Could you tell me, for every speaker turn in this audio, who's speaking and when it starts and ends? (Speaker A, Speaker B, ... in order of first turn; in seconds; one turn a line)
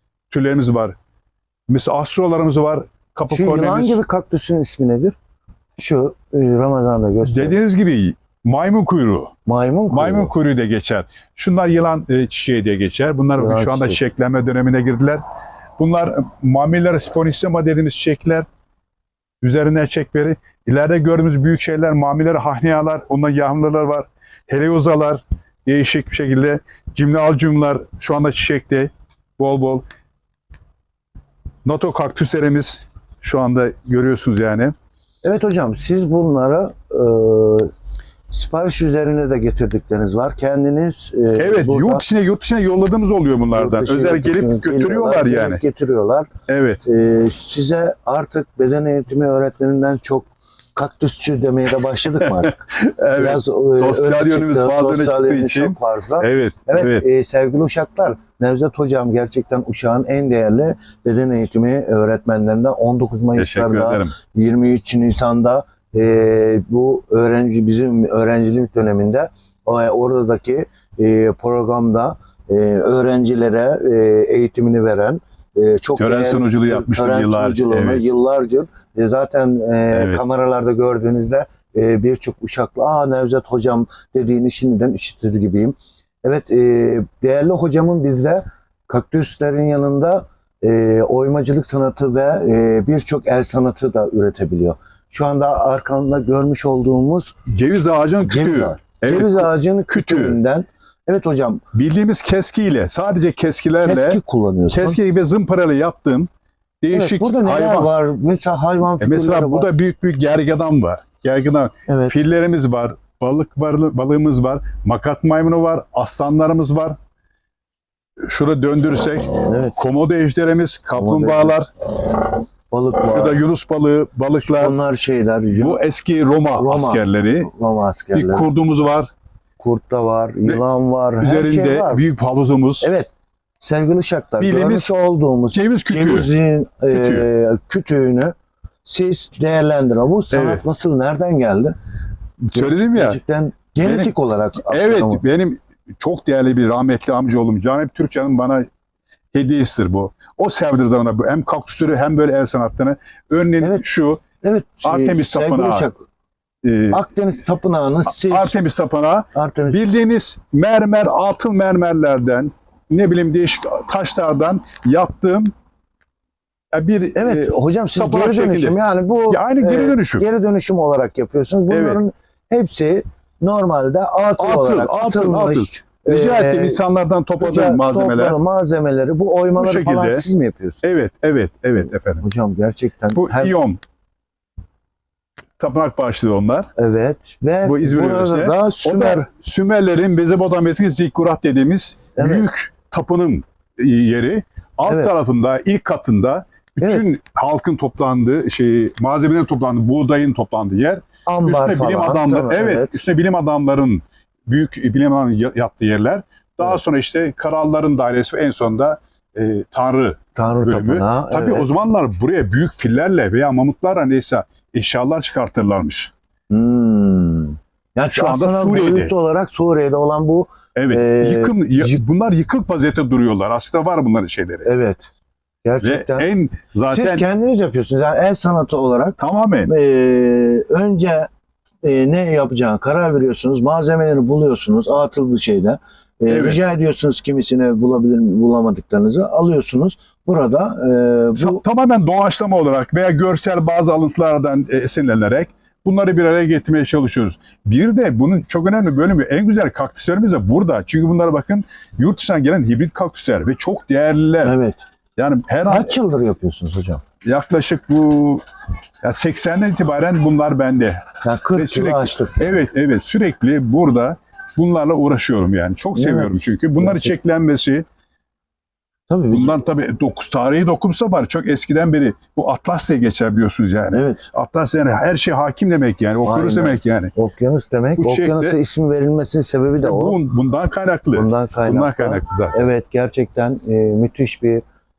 Speaker A: 0.3-1.0
Speaker A: 1.7-4.0
Speaker B: 3.3-5.2
Speaker B: 5.8-7.6
Speaker A: 7.2-9.3
Speaker B: 9.5-10.3
Speaker A: 9.9-15.2
Speaker B: 13.4-14.0
Speaker A: 15.8-18.5
Speaker A: 19.4-29.9
Speaker A: 31.6-34.7
Speaker B: 35.2-37.7
Speaker B: 38.3-42.0
Speaker A: 41.4-45.6
Speaker B: 43.5-46.3
Speaker A: 46.5-46.8
Speaker B: 46.9-97.3
Speaker A: 52.2-57.0
Speaker A: 63.4-64.2
Speaker A: 76.0-78.0
Speaker A: 79.9-80.2
Speaker A: 97.5-100.4
Speaker B: 98.2-101.6
Speaker A: 101.7-106.3
Speaker B: 103.8-105.0
Speaker A: 106.8-107.9
Speaker B: 106.9-109.7
Speaker A: 109.0-117.0
Speaker B: 111.9-112.2
Speaker A: 118.3-121.7
Speaker B: 119.4-119.8
Speaker B: 121.0-121.6
Speaker B: 122.7-123.4
Speaker A: 123.0-124.8
Speaker B: 124.5-125.8
Speaker A: 125.5-127.5
Speaker B: 126.5-128.5
Speaker A: 128.1-129.1
Speaker B: 129.6-132.0
Speaker A: 131.2-132.9
Speaker B: 132.8-141.8
Speaker A: 134.4-134.9
Speaker A: 135.5-136.3
Speaker A: 136.9-137.3
Speaker A: 140.3-140.6
Speaker A: 142.5-143.2
Speaker B: 142.5-145.2
Speaker A: 143.8-148.7
Speaker A: 149.3-154.2
Speaker B: 154.4-156.0
Speaker A: 154.8-155.9
Speaker A: 156.6-157.0
Speaker B: 156.9-158.6
Speaker A: 158.1-165.5
Speaker B: 159.3-159.8
Speaker A: 166.7-168.8
Speaker B: 167.2-176.8
Speaker A: 169.3-170.2
Speaker A: 171.7-172.0
Speaker A: 174.4-178.4
Speaker B: 177.4-180.8
Speaker A: 179.6-180.2
Speaker A: 180.8-182.2
Speaker B: 182.2-183.6
Speaker A: 183.2-183.8
Speaker A: 185.6-186.7
Speaker B: 186.8-189.3
Speaker A: 187.6-216.1
Speaker B: 192.2-192.5
Speaker B: 194.9-195.1
Speaker B: 201.3-203.0
Speaker B: 210.3-211.7
Speaker B: 216.5-222.0
Speaker A: 218.1-219.1
Speaker A: 220.8-224.7
Speaker B: 224.7-225.1
Speaker B: 225.6-226.3
Speaker A: 225.8-227.2
Speaker B: 226.9-231.3
Speaker A: 229.2-229.7
Speaker B: 231.8-241.6
Speaker A: 236.3-236.6
Speaker A: 241.4-254.6
Speaker B: 254.4-254.8
Speaker A: 255.2-256.0
Speaker B: 255.7-257.0
Speaker A: 257.2-258.4
Speaker A: 259.0-261.1
Speaker B: 261.2-262.6
Speaker A: 261.6-267.9
Speaker B: 265.9-267.1
Speaker B: 269.1-269.5
Speaker A: 269.3-277.1
Speaker B: 273.9-274.3
Speaker B: 276.2-280.2
Speaker A: 278.0-278.6
Speaker A: 279.8-282.7
Speaker B: 281.1-284.6